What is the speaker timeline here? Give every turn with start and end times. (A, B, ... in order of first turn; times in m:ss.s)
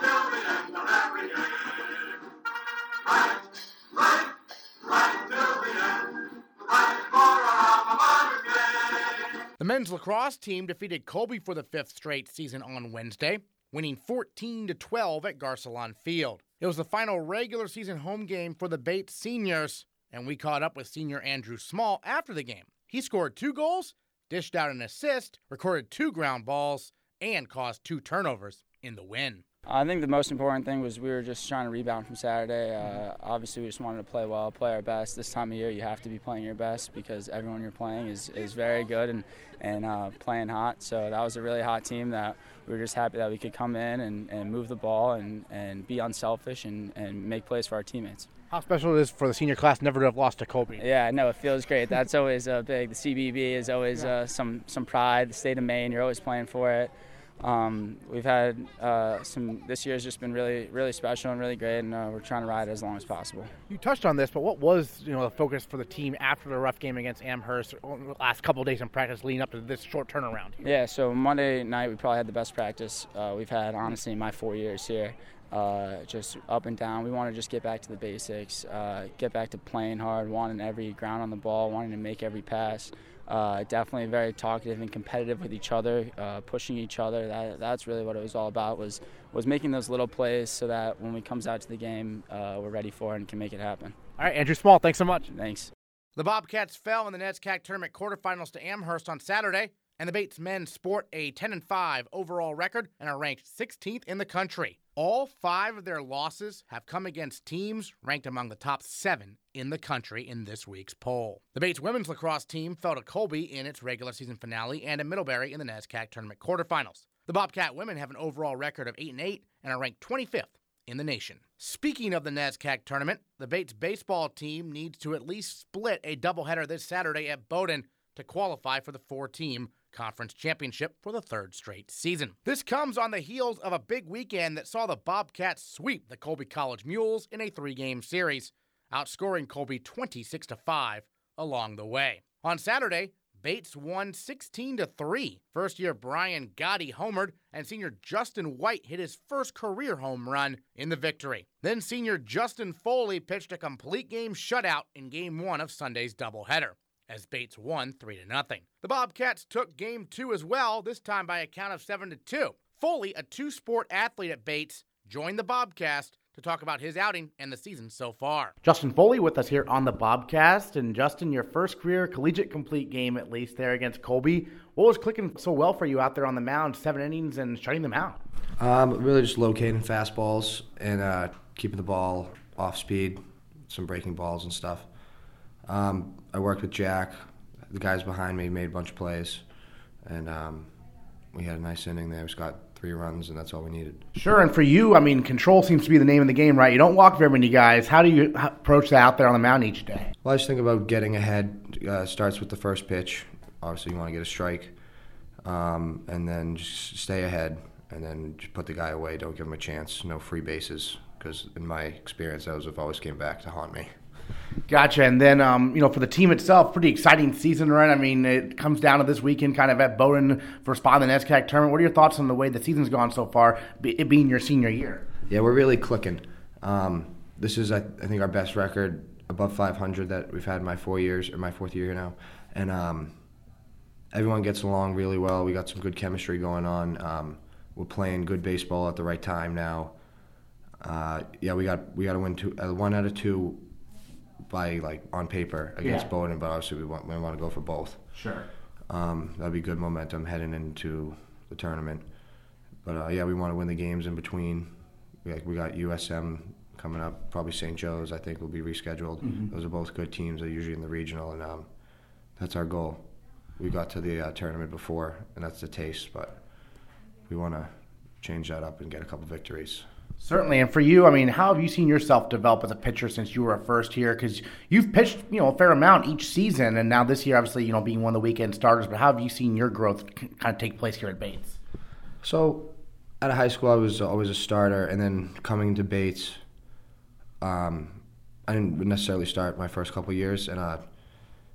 0:09.6-0:29.4 A
0:29.7-0:48.3 B
0:48.5-0:50.8 A
0:50.8-1:03.5 B
1:03.7-1:10.6 A
1:10.6-1:33.9 B
1:34.2-1:35.3 A
1:35.3-1:35.7 B
1:36.2-2:58.2 A
2:58.6-3:04.9 C
3:05.6-3:09.4 C
3:10.0-3:10.7 C
3:11.3-3:14.1 C
3:14.1-3:20.1 A
3:20.2-3:24.7 C
3:25.4-3:33.9 C
3:34.7-3:45.0 A
3:45.3-3:53.2 C
3:54.1-3:59.9 C
4:00.8-4:03.6 C
4:04.5-4:08.2 C
4:08.1-4:08.5 A
4:08.9-4:12.1 C
4:12.8-4:21.7 C
4:19.2-4:19.5 A
4:22.4-4:26.4 C
4:27.3-4:29.8 C
4:30.2-4:41.6 A
4:42.2-4:46.4 C
4:47.4-4:50.8 C